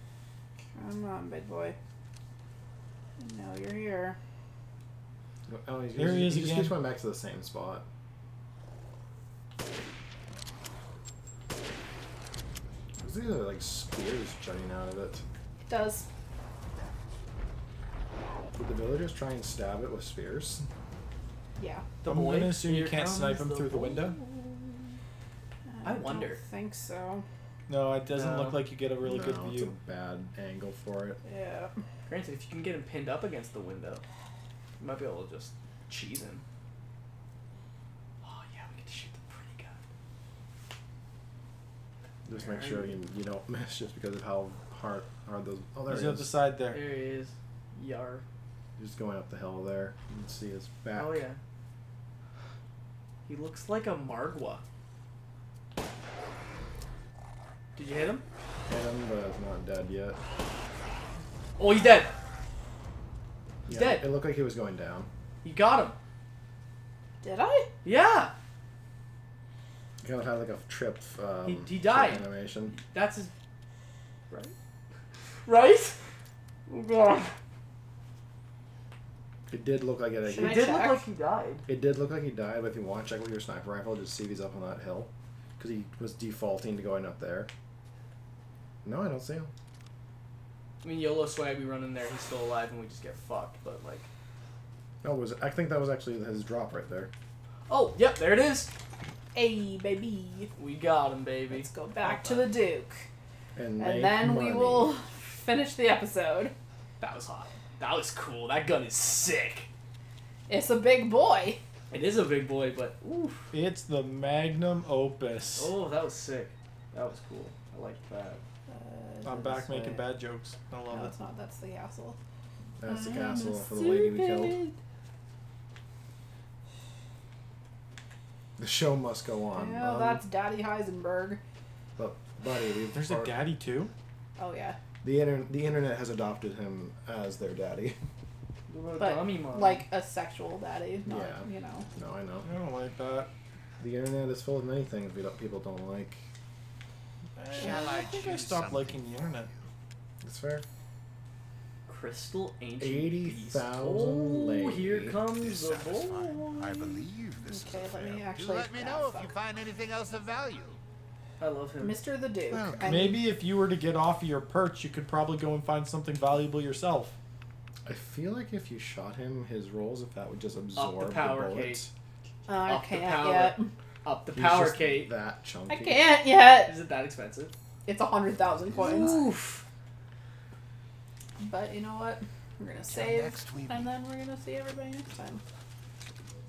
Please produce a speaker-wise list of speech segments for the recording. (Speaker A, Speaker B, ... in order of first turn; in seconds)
Speaker A: 0.7-1.8, 3.2-4.2, 15.6-16.1, 21.6-21.9, 25.6-27.2, 31.2-31.7, 67.2-67.7, 80.3-81.0, 99.3-100.5, 101.5-103.1, 103.8-106.5, 110.5-111.6, 118.7-120.0, 120.9-122.2, 122.9-124.8, 129.5-131.4, 134.4-134.8, 139.0-141.9, 147.6-148.0, 157.4-159.4, 161.8-163.2, 172.5-173.7, 175.7-176.7, 177.8-179.3, 181.4-185.4
Speaker B: 5.5-7.8, 13.0-15.2, 18.5-20.6, 29.0-31.2, 42.2-46.3, 48.8-51.2, 58.7-60.2, 63.6-65.1, 70.0-72.8, 79.5-80.6, 81.7-87.5, 88.8-89.5, 95.0-97.1, 103.5-104.9, 122.8-124.6, 128.6-130.2, 132.0-133.3, 135.0-138.0, 141.1-142.5, 143.8-146.2, 150.2-150.6, 152.8-155.2, 167.8-171.9, 174.3-176.1
Speaker C: 6.0-6.7, 22.0-24.1, 27.7-29.7, 45.9-46.8, 113.5-115.7, 119.2-121.1, 132.9-133.9, 142.4-143.3, 147.3-149.5, 162.8-167.1
Speaker D: 22.0-25.0, 25.8-26.4, 28.1-28.6, 32.1-34.0, 34.8-36.4, 38.2-39.8, 42.4-42.9, 46.7-48.2, 50.9-51.4, 53.2-54.6, 57.8-58.2, 61.6-62.1, 63.7-64.1, 65.4-66.0, 67.8-68.3, 71.4-73.3, 75.5-76.0, 76.7-77.3, 80.3-81.6, 90.8-94.1, 97.7-98.7, 100.6-102.4, 107.0-109.7, 111.9-113.5, 115.6-118.4, 138.7-139.9, 151.9-157.0, 161.4-162.0, 170.8-171.8, 172.7-175.1, 176.6-177.5, 178.7-179.6
Speaker E: 147.5-149.7, 155.2-160.8, 162.5-163.1, 182.9-183.9